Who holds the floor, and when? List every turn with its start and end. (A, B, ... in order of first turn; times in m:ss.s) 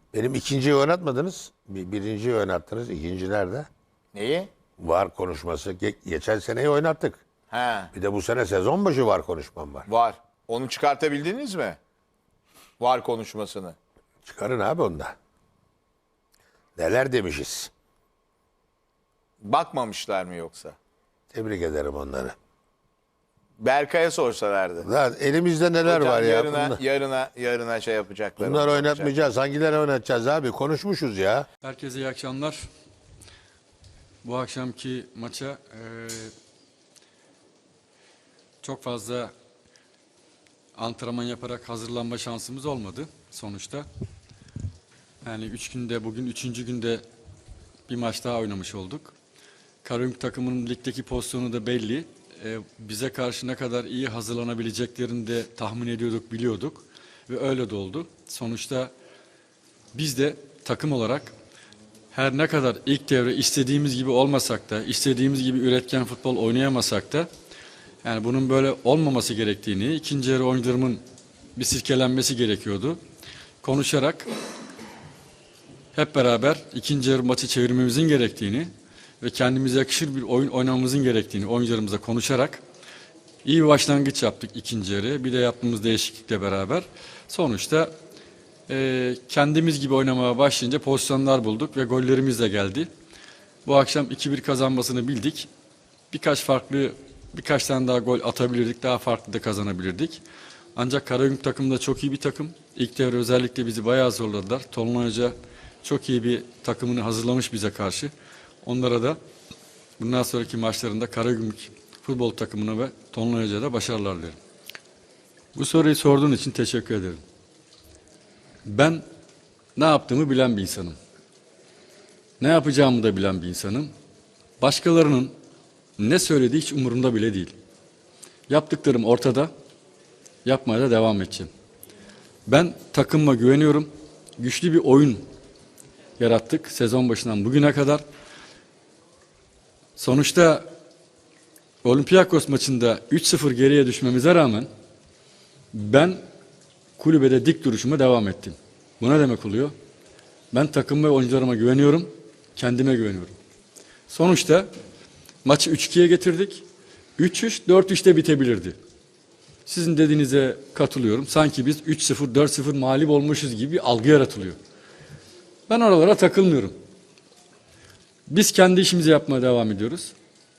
0:00.1-0:03.7 A
0:04.1-0:04.5 B
0:04.8-0:07.2 A
0:07.5-0:07.9 B
0:07.9-0:09.9 A
0:09.9-0:11.8 B
0:12.8-0:13.8 B
0:14.2-0:15.1 A
0:16.8-0:17.7 A
0:19.4-0:20.8 B
0:21.3-0:22.3 A
0:23.6-0:24.9 B
0:24.8-0:26.8 A
0:25.8-0:29.2 B
0:28.4-0:31.5 A
0:31.6-0:32.6 C
0:34.2-0:36.3 C
0:38.6-0:39.3 C
0:40.8-0:43.9 C
0:45.2-0:47.0 C
0:47.9-0:49.1 C
0:49.8-0:58.9 C
0:59.9-1:01.3 C
1:02.1-1:07.3 C
1:08.0-1:11.0 C
1:11.6-1:13.0 C
1:13.6-1:14.3 C
1:15.9-1:18.7 C
1:19.2-1:22.6 C
1:23.4-1:27.9 C
1:28.7-1:32.9 C
1:33.6-1:35.5 C
1:36.1-1:40.2 C
1:40.8-1:48.1 C
1:48.6-1:49.2 C
1:50.0-1:54.4 C
1:55.5-1:57.2 C
1:58.6-1:59.0 C
1:59.8-2:01.0 C
2:02.4-2:03.9 C
2:04.6-2:05.3 C
2:06.0-2:07.5 C
2:08.5-2:09.5 C
2:10.4-2:11.5 C
2:12.5-2:15.2 C
2:16.2-2:18.0 C
2:20.0-2:20.7 C
2:21.8-2:24.7 C
2:25.7-2:26.2 C
2:27.0-2:29.7 C
2:30.5-2:33.3 C
2:34.1-2:34.7 C
2:35.4-2:36.6 C
2:37.2-2:38.8 C
2:39.7-2:44.6 C
2:45.7-2:46.7 C
2:48.3-2:50.1 C